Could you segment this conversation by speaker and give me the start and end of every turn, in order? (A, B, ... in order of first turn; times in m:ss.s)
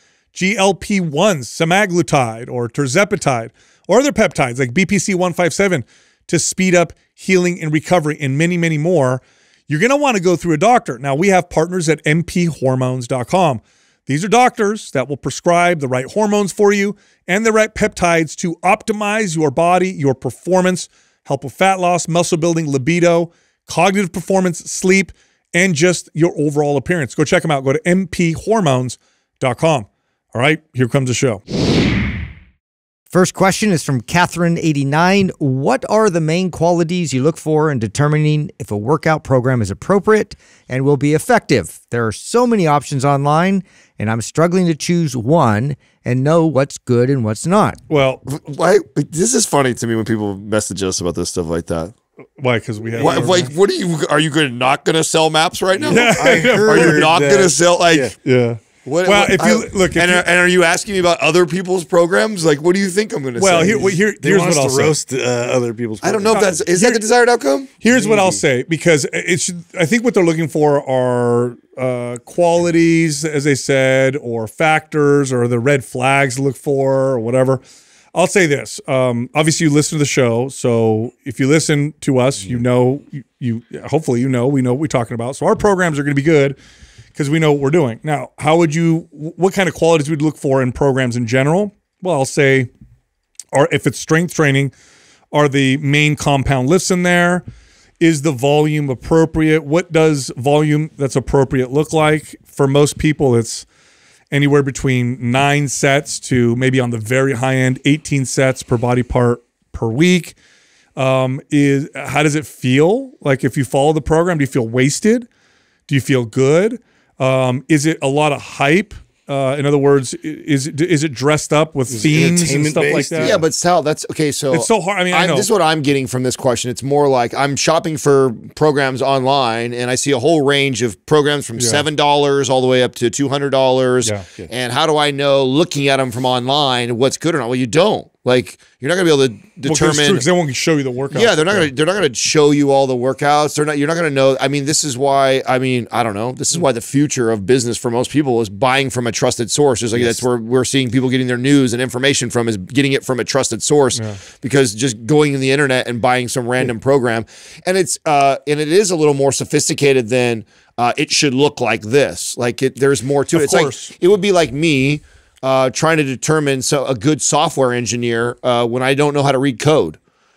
0:00.3-0:31.4 A
0:33.1-0:47.8 B
0:47.9-0:48.2 A
0:48.3-0:51.9 C
0:52.4-0:53.5 A
0:53.0-0:58.1 C
0:55.7-0:58.1 D
0:55.9-0:57.1 A
0:58.2-1:00.2 A
0:58.8-1:04.0 C
1:03.4-1:05.0 A
1:03.5-1:06.6 D
1:06.0-1:07.7 C
1:06.3-1:07.0 A
1:07.8-1:17.6 A
1:07.9-1:08.4 D
1:18.1-1:26.6 A
1:27.2-1:32.7 A
1:33.5-1:34.7 A
1:35.3-1:37.4 A
1:38.0-1:43.7 A
1:44.3-1:50.4 A
1:51.0-1:55.3 A
1:55.9-2:03.4 A
2:01.9-2:03.4 D
2:03.2-2:20.3 C
2:04.5-2:05.5 A
2:11.6-2:11.8 A
2:19.6-2:21.7 A
2:21.1-2:50.0 C
2:34.0-2:34.2 A
2:43.3-2:43.9 A